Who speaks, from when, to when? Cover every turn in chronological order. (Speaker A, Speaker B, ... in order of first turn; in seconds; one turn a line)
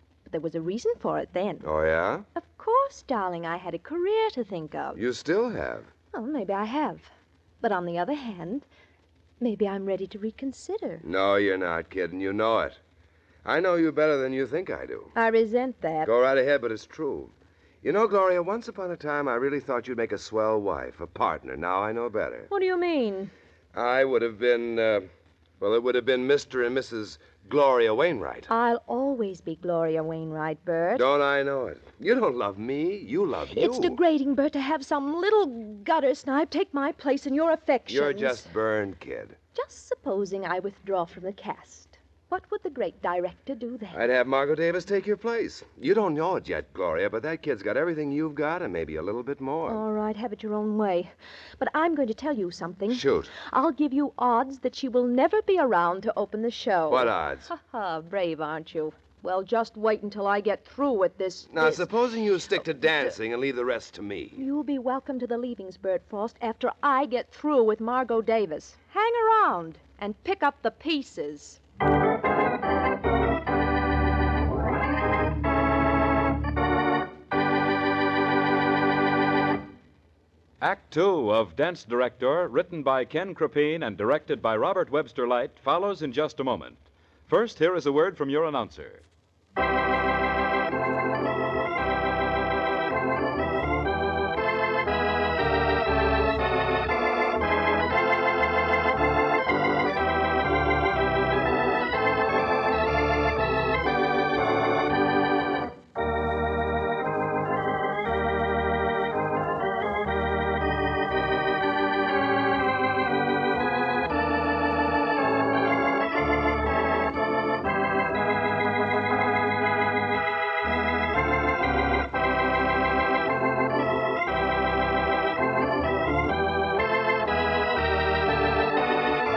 Speaker A: 0.3-1.7
Speaker B: 1.6-2.3
Speaker A: 2.4-5.0
Speaker B: 5.0-5.9
Speaker A: 6.1-8.7
Speaker A: 9.4-11.0
Speaker B: 11.0-12.8
Speaker B: 13.4-15.1
Speaker A: 15.2-16.1
Speaker B: 16.0-22.5
Speaker A: 22.5-23.3
Speaker B: 23.7-25.1
Speaker B: 25.6-28.5
Speaker A: 28.5-31.1
Speaker B: 30.9-34.0
Speaker A: 33.5-38.5
Speaker B: 37.9-39.4
Speaker A: 39.5-44.0
Speaker B: 43.9-49.8
Speaker A: 49.7-61.9
Speaker B: 52.9-53.3
Speaker B: 56.9-57.5
Speaker B: 61.5-64.4
Speaker A: 62.8-63.1
Speaker A: 64.4-71.6
Speaker C: 80.6-89.0